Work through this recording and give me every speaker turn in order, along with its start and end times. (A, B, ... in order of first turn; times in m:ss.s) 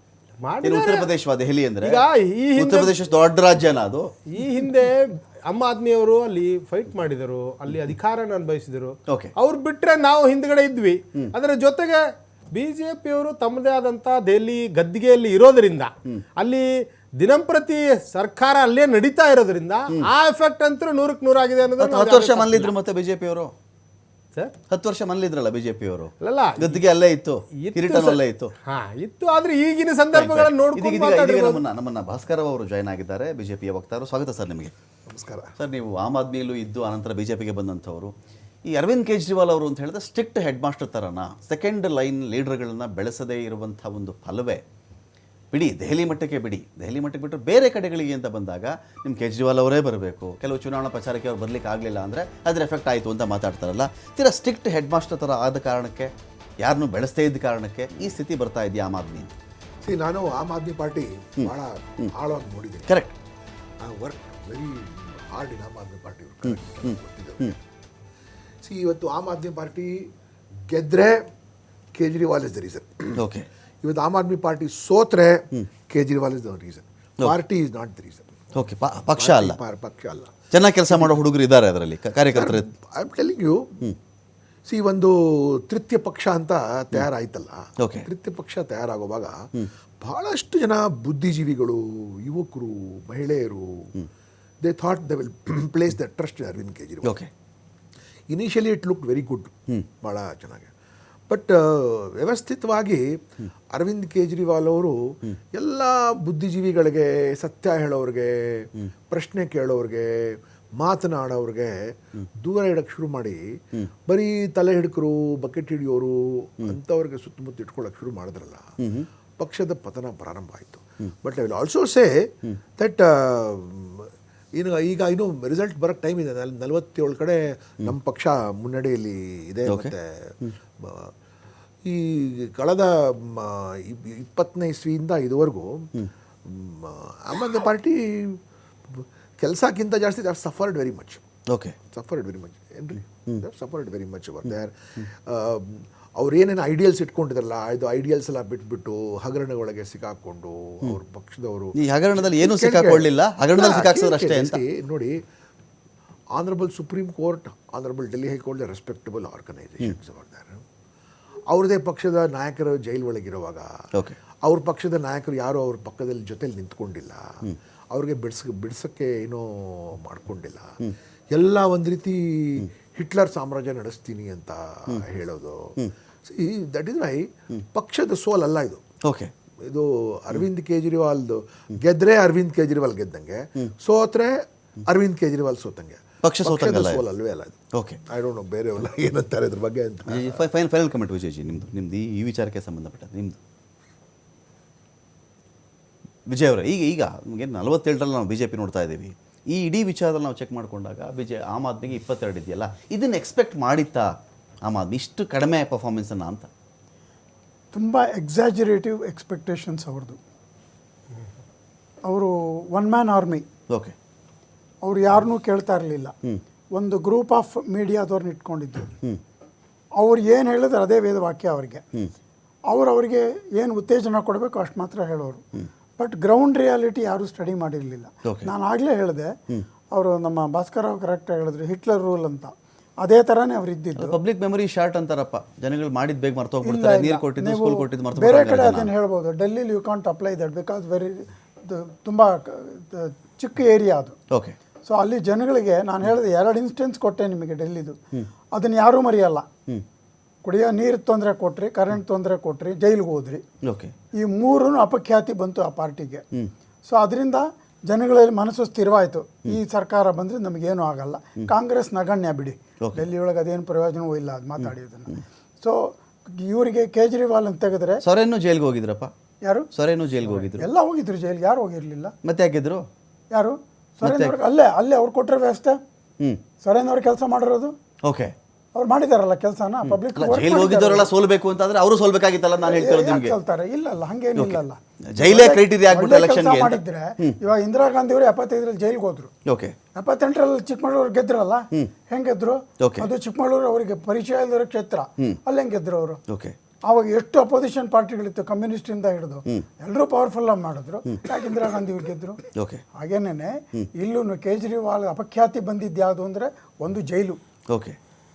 0:00.4-0:01.1 A
0:00.6-0:02.0 B
0:01.8-0:03.0 A
0:02.6-0:04.1 B
0:04.3-0:22.7 A
0:21.8-0:23.5 B
0:24.7-0:28.5 B
0:26.2-0:26.8 A
0:27.6-0:31.6 A
0:30.1-0:34.7 B
0:35.1-0:35.6 C
0:35.6-0:38.1 B
0:38.7-0:44.6 B
0:45.5-0:56.1 B
0:56.6-0:59.3 B
0:59.8-1:03.1 C
1:02.9-1:03.1 B
1:03.8-1:07.6 C
1:06.5-1:07.5 B
1:08.6-1:10.1 C
1:10.7-1:11.3 C
1:12.0-1:13.2 C
1:13.2-1:13.5 B
1:13.8-1:18.5 C
1:18.6-1:19.6 B
1:19.1-1:21.2 C
1:20.5-1:22.7 B
1:22.3-1:23.8 C
1:24.7-1:29.5 C
1:27.8-1:28.1 B
1:30.0-1:34.0 C
1:34.6-1:37.2 C
1:37.0-1:37.3 B
1:38.3-1:40.7 C
1:41.3-1:43.2 C
1:43.7-1:58.8 C
1:58.8-1:59.1 B
1:59.4-2:11.1 C
2:09.7-2:10.5 B
2:11.8-2:21.2 C
2:21.5-2:21.8 B
2:21.9-2:35.2 C
2:31.8-2:34.6 B
2:36.4-2:40.6 C
2:41.5-2:43.9 C
2:44.4-2:50.8 C
2:51.3-2:58.8 C
2:59.0-2:59.3 B
2:59.6-3:10.4 C
3:06.2-3:07.0 B
3:07.8-3:08.0 B
3:10.1-3:13.4 B
3:16.3-3:24.1 B
3:24.7-3:26.5 B
3:27.7-3:30.2 D
3:32.1-3:33.5 D
3:33.7-3:34.0 B
3:34.8-3:36.1 D
3:36.7-3:38.9 D
3:40.0-3:41.8 D
3:42.7-3:45.4 D
3:46.0-3:49.3 D
3:48.2-3:48.5 B
3:49.9-3:54.2 D
3:54.0-3:58.9 B
3:56.6-4:04.2 D
4:04.8-4:08.0 D
4:08.5-4:09.5 D
4:10.4-4:13.4 D
4:13.7-4:13.9 B
4:14.2-4:16.2 D
4:16.9-4:28.0 D
4:24.6-4:25.2 B
4:28.0-4:29.1 B
4:29.4-4:29.7 D
4:29.7-4:30.7 B
4:30.2-4:32.1 D
4:32.2-4:32.8 B
4:33.3-4:35.8 D
4:34.0-4:34.4 B
4:36.6-4:37.8 D
4:38.0-4:38.3 B
4:38.8-4:41.1 D
4:39.8-4:43.4 B
4:42.6-4:49.3 D
4:45.1-4:47.4 B
4:49.5-4:49.8 B
4:50.0-4:56.2 D
4:52.8-4:53.1 B
4:56.3-4:56.6 B
4:56.9-5:02.4 D
5:02.6-5:02.8 B
5:03.0-5:07.4 D
5:07.7-5:08.0 B